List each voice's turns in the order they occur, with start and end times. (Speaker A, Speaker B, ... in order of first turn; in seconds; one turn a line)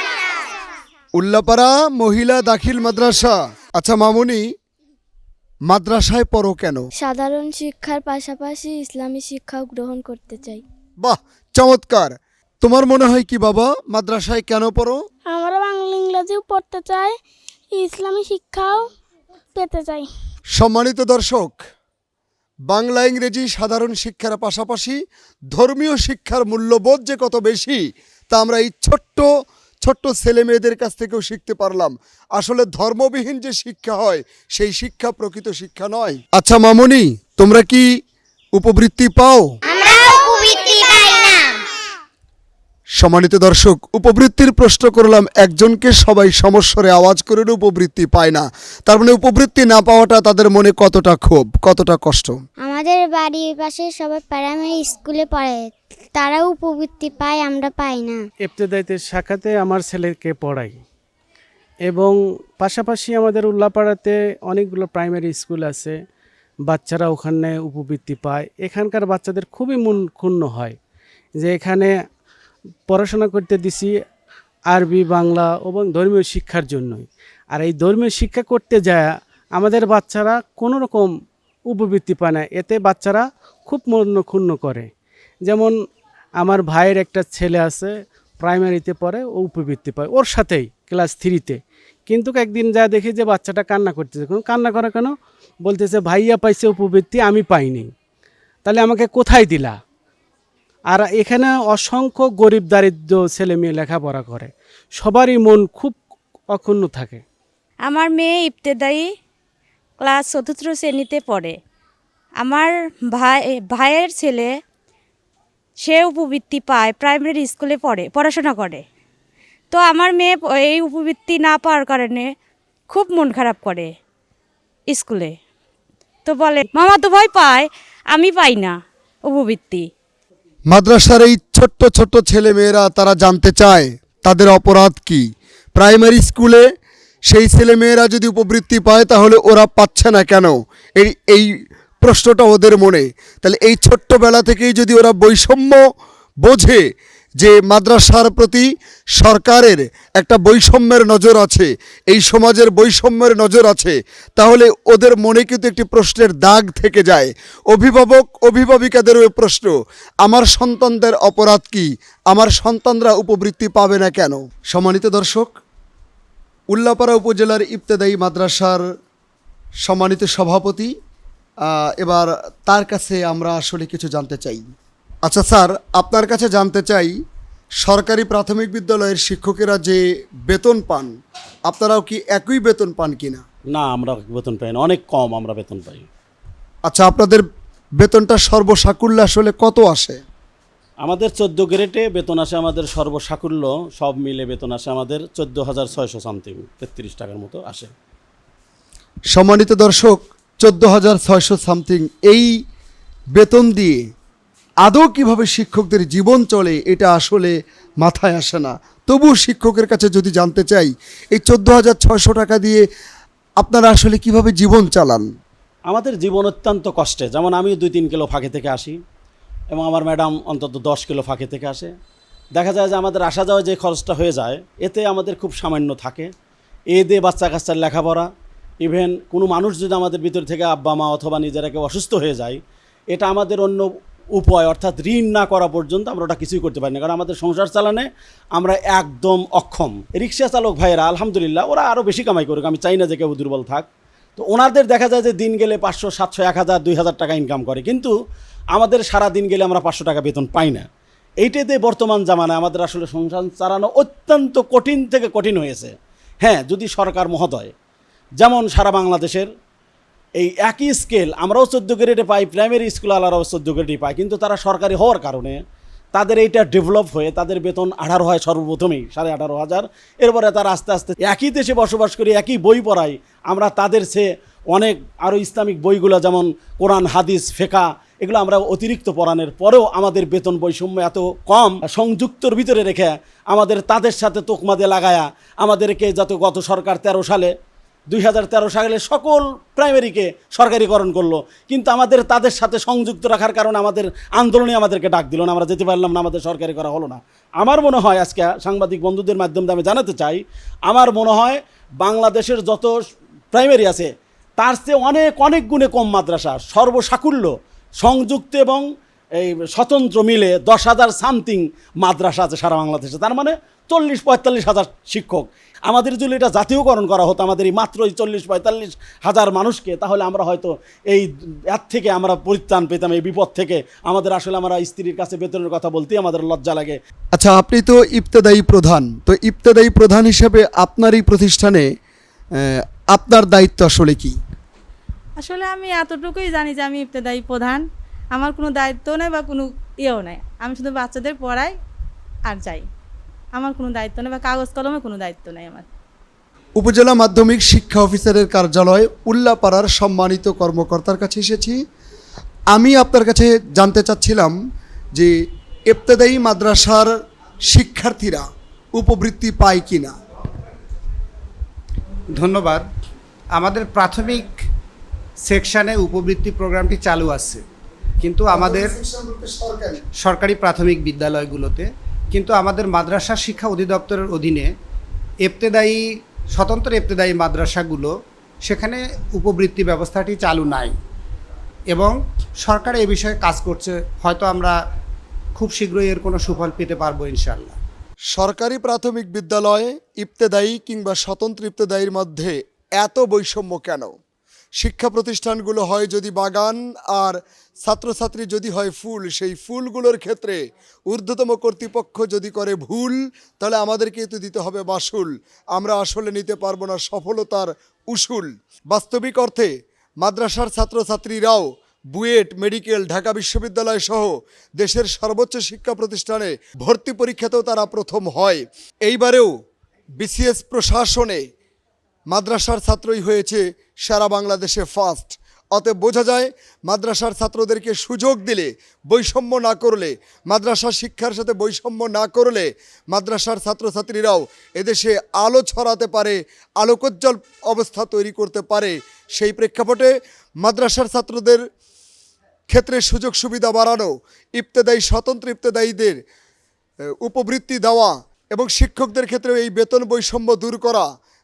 Speaker A: 1.2-4.4
Speaker A: 5.7-6.9
Speaker B: 7.0-10.6
Speaker A: 11.0-12.1
Speaker A: 12.6-15.0
Speaker C: 15.2-17.2
Speaker C: 17.7-18.9
Speaker C: 19.5-20.1
Speaker A: 20.6-21.6
Speaker A: 22.7-25.0
Speaker A: 25.5-27.8
Speaker A: 28.3-29.3
Speaker A: 29.8-37.8
Speaker A: 38.6-39.5
Speaker D: 39.7-41.6
Speaker A: 43.0-52.4
Speaker D: 52.6-58.2
Speaker E: 58.4-60.8
Speaker E: 61.9-66.0
Speaker E: 66.7-70.8
Speaker E: 71.4-71.9
Speaker E: 72.9-73.9
Speaker E: 74.7-81.1
Speaker E: 81.7-84.9
Speaker E: 85.4-85.7
Speaker E: 86.4-97.9
Speaker E: 98.6-99.8
Speaker E: 100.9-106.0
Speaker E: 106.5-107.2
Speaker F: 107.8-109.0
Speaker F: 110.0-111.6
Speaker F: 112.4-114.5
Speaker F: 115.8-118.8
Speaker F: 119.7-122.3
Speaker F: 122.9-123.9
Speaker F: 124.9-125.3
Speaker F: 126.2-128.8
Speaker F: 129.3-129.9
Speaker A: 130.7-135.2
Speaker A: 135.8-136.6
Speaker A: 137.3-141.5
Speaker A: 142.0-145.8
Speaker A: 146.4-146.8
Speaker A: 147.4-148.7
Speaker A: 149.2-159.7
Speaker A: 160.2-165.5
Speaker A: 166.7-168.8
Speaker A: 169.8-170.9
Speaker A: 172.0-174.6
Speaker A: 175.2-177.1
Speaker A: 177.8-181.1
Speaker A: 181.7-183.4
Speaker G: 183.7-186.1
Speaker A: 186.9-187.4
Speaker A: 188.0-190.2
Speaker G: 191.0-197.9
Speaker A: 199.3-202.5
Speaker A: 203.3-204.0
Speaker A: 204.8-212.8
Speaker A: 213.6-215.3
Speaker G: 215.9-218.9
Speaker G: 219.7-221.9
Speaker G: 222.6-226.3
Speaker G: 226.9-228.3
Speaker G: 228.8-232.6
Speaker G: 233.1-233.8
Speaker G: 234.4-238.1
Speaker G: 238.6-243.8
Speaker G: 244.4-248.1
Speaker G: 248.7-250.8
Speaker G: 251.4-255.9
Speaker G: 256.4-257.7
Speaker G: 258.4-259.5
Speaker G: 260.4-265.6
Speaker G: 266.1-287.5
Speaker G: 288.1-302.9
Speaker G: 303.5-304.1
Speaker G: 304.6-307.5
Speaker G: 308.0-308.8
Speaker G: 309.4-327.0
Speaker A: 327.3-331.9
Speaker A: 332.7-334.4
Speaker H: 335.4-341.8
Speaker H: 342.4-342.9
Speaker H: 343.5-345.9
Speaker A: 346.8-351.8
Speaker A: 352.7-354.5
Speaker A: 355.9-357.1
Speaker A: 357.7-358.4
Speaker A: 359.0-360.1
Speaker I: 362.3-362.8
Speaker I: 363.5-364.6
Speaker I: 365.4-367.6
Speaker I: 368.2-368.9
Speaker A: 368.5-370.0
Speaker I: 370.2-374.7
Speaker I: 375.4-376.0
Speaker I: 376.5-378.1
Speaker I: 378.6-380.9
Speaker I: 381.9-384.8
Speaker I: 385.6-387.8
Speaker A: 388.3-394.1
Speaker A: 394.8-400.6
Speaker A: 401.1-409.7
Speaker A: 410.2-419.5
Speaker A: 420.2-421.4
Speaker A: 422.3-441.6
Speaker A: 442.7-446.2
Speaker A: 447.2-451.1